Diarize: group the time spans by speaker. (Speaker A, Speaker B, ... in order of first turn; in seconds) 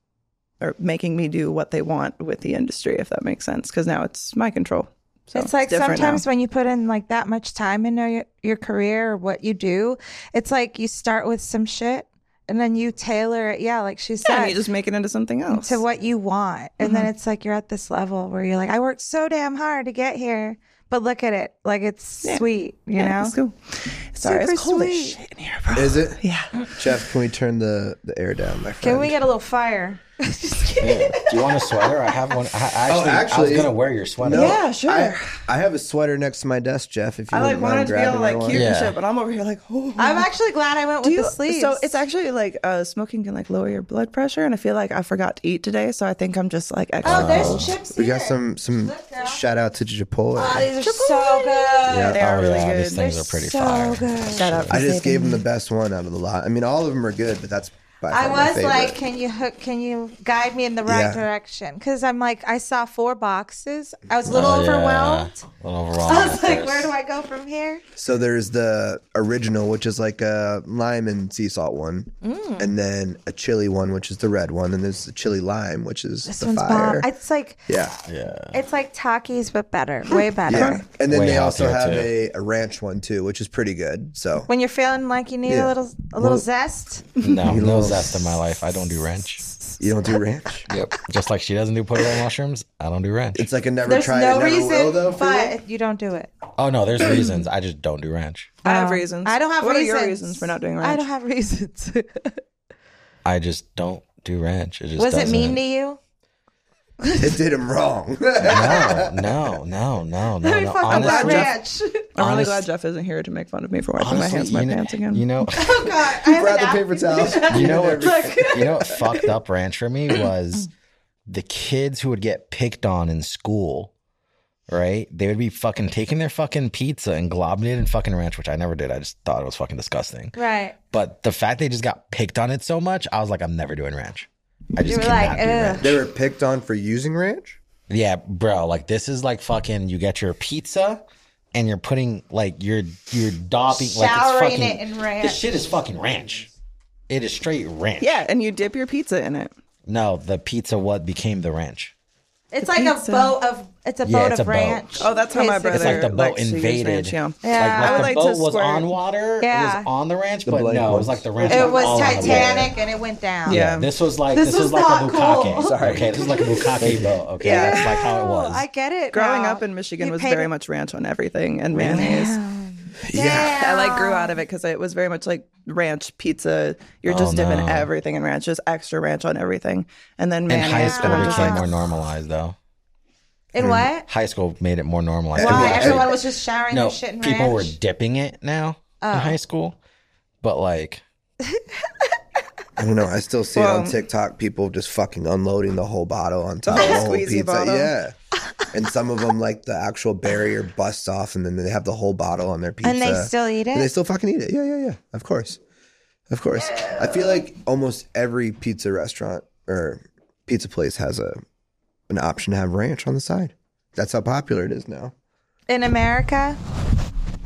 Speaker A: 0.6-6.2, 14.2-15.8, 16.8-17.1, 23.0-26.7, 34.3-35.4, 37.3-40.3, 41.0-47.7, 50.6-53.1, 54.4-55.4, 80.5-80.8, 98.6-101.1, 110.9-111.6, 112.2-115.3, 148.0-149.5, 152.6-153.3, 155.0-158.9, 163.5-163.9, 167.4-167.9, 169.1-172.4, 173.4-181.7, 193.6-194.0, 196.7-197.9
Speaker B: 5.3-14.6, 15.5-23.4, 24.2-25.2, 28.8-32.0, 40.0-42.0, 47.0-49.4, 50.4-52.2, 52.9-54.6, 58.1-65.5, 66.0-67.8, 72.2-72.7, 76.3-77.7, 78.5-80.8, 84.5-87.1, 93.8-96.3, 98.7-102.4, 105.0-106.0, 107.0-107.4, 110.4-112.1, 115.5-119.2, 130.3-130.8, 134.8-136.0, 143.7-145.4, 152.5-156.1, 157.4-158.2, 159.4-159.9, 161.4-163.6, 164.3-166.6, 167.4-170.5, 171.8-174.4, 180.8-181.7, 183.5-184.1, 185.4-187.8, 189.0-189.4, 202.8-203.9, 206.7-207.4, 215.7-216.6
Speaker C: 25.7-26.2, 26.7-29.2, 32.9-38.7, 47.9-50.6, 51.9-52.2, 54.7-59.0, 60.9-61.2, 68.0-77.1, 77.7-78.0, 80.5-84.5, 85.5-86.5, 87.4-88.3, 89.8-90.7, 93.3-95.6, 107.2-109.6, 116.2-119.0, 135.8-137.6, 160.4-162.7, 165.6-167.2, 173.1-173.6, 183.6-183.9, 185.3-186.2, 192.8-198.2, 198.7-205.6, 206.3-211.4, 212.1-215.1
Speaker D: 30.8-34.6, 38.5-39.0, 47.0-47.7, 51.9-54.8, 64.3-66.9, 78.0-78.6, 81.1-82.1, 87.2-89.4, 90.7-93.5, 96.6-98.5, 103.2-105.6, 108.4-111.5, 112.2-112.7, 114.0-116.0, 117.5-120.7, 121.3-123.9, 124.7-130.4, 130.9-136.0, 137.9-141.0, 141.5-146.5, 147.1-148.2, 149.9-151.9, 154.1-155.1, 155.7-162.7, 163.5-168.7, 177.1-177.9, 180.5-182.6, 184.1-189.8, 190.4-191.0